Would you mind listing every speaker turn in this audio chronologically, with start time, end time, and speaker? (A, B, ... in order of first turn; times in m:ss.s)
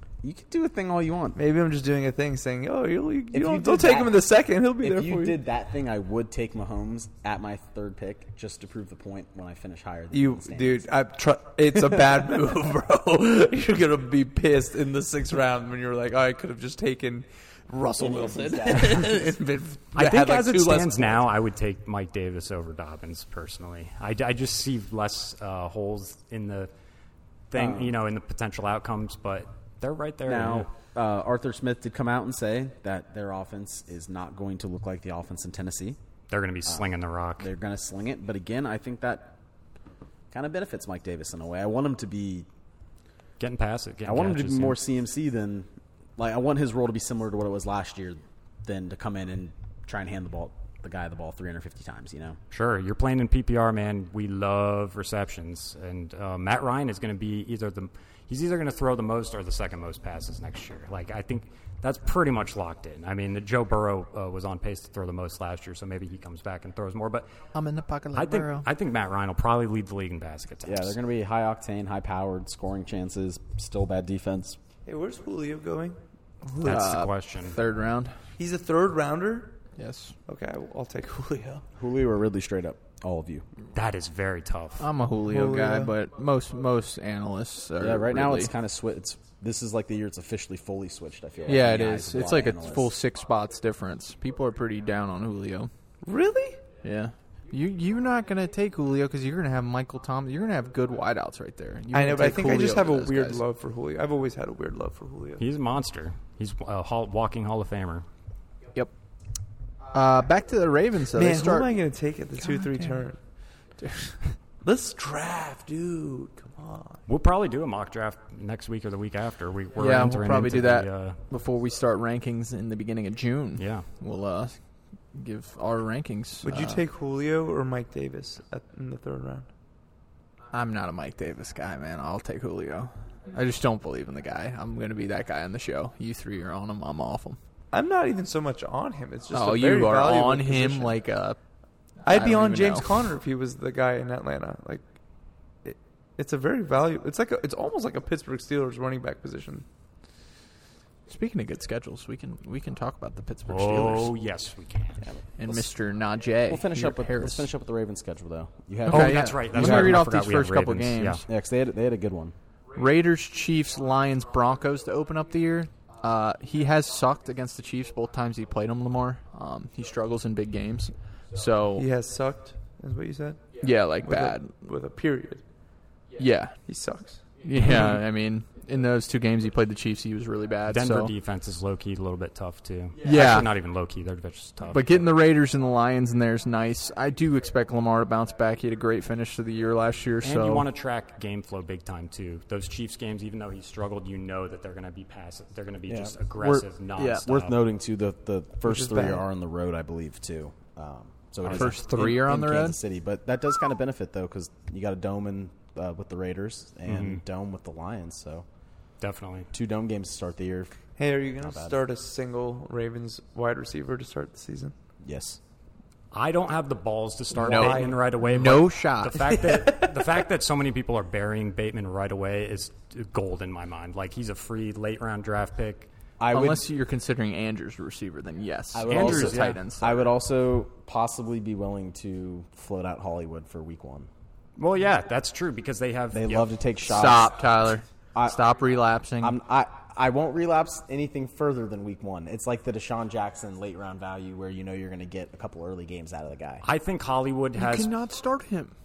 0:00.2-0:01.4 A
0:01.4-0:05.4 B
0:03.3-0:10.9 A
0:10.1-0:21.2 B
0:18.0-0:19.1 A
0:19.9-0:26.7 C
0:27.5-0:30.7 C
0:27.5-0:28.0 A
0:30.3-0:36.0 A
0:36.3-0:37.5 C
0:36.7-0:39.4 A
0:40.3-0:42.5 A
0:43.4-0:44.8 C
0:44.0-0:52.4 A
0:52.5-1:07.3 C
1:07.5-1:08.7 D
1:08.1-1:11.0 C
1:10.6-1:14.6 A
1:14.9-1:16.9 B
1:16.6-1:17.6 C
1:16.6-1:18.2 D
1:18.4-1:19.6 B
1:19.8-1:20.2 D
1:20.3-1:21.6 B
1:21.8-1:23.5 A
1:23.7-1:24.9 C
1:24.8-1:28.5 D
1:25.3-1:25.9 B
1:27.8-1:32.9 A
1:31.5-1:35.7 D
1:36.0-1:36.6 B
1:36.8-1:43.4 D
1:41.9-1:45.4 B
1:45.4-1:48.1 C
1:49.9-1:51.7 D
1:51.2-1:53.2 B
1:52.4-1:52.9 D
1:54.6-1:57.0 B
1:57.1-2:01.2 C
1:59.8-2:04.6 D
2:03.6-2:03.9 C
2:05.1-2:06.8 D
2:06.4-2:09.5 B
2:10.5-2:17.4 D
2:17.7-2:21.0 B
2:19.3-2:21.4 D
2:22.0-2:24.8 B
2:22.1-2:22.9 D
2:25.6-2:29.7 B
2:31.1-2:34.1 D
2:33.5-2:35.0 C
2:35.0-2:35.7 A
2:35.4-2:37.5 D
2:36.5-2:40.0 A
2:38.9-2:41.2 C
2:38.9-2:41.2 D
2:41.3-2:42.4 A
2:42.8-2:51.9 D
2:51.8-2:55.4 B
2:53.6-2:54.7 D
2:56.2-2:56.6 D
2:56.7-2:57.2 B
2:57.4-3:01.1 D
3:00.7-3:05.1 C
3:03.0-3:03.5 D
3:04.7-3:10.7 D
3:10.2-3:17.6 C
3:15.9-3:16.2 A
3:16.4-3:17.3 D
3:17.2-3:28.5 A
3:18.6-3:19.2 B
3:21.4-3:22.8 D
3:26.9-3:27.2 C
3:29.0-3:29.5 C
3:29.5-3:30.8 A
3:31.0-3:34.7 B
3:31.4-3:31.8 A
3:35.0-3:35.4 A
3:36.1-3:45.9 C
3:37.4-3:38.0 B
3:37.4-3:39.4 D
3:39.4-3:39.9 B
3:46.2-3:46.6 A
3:46.3-3:50.1 D
3:48.7-3:54.1 A
3:48.9-3:49.6 C
3:54.6-3:56.6 C
3:56.1-3:57.4 A
3:56.9-3:59.4 D
3:58.2-3:58.4 A
3:59.2-4:06.6 A
4:06.6-4:07.9 C
4:07.6-4:08.7 D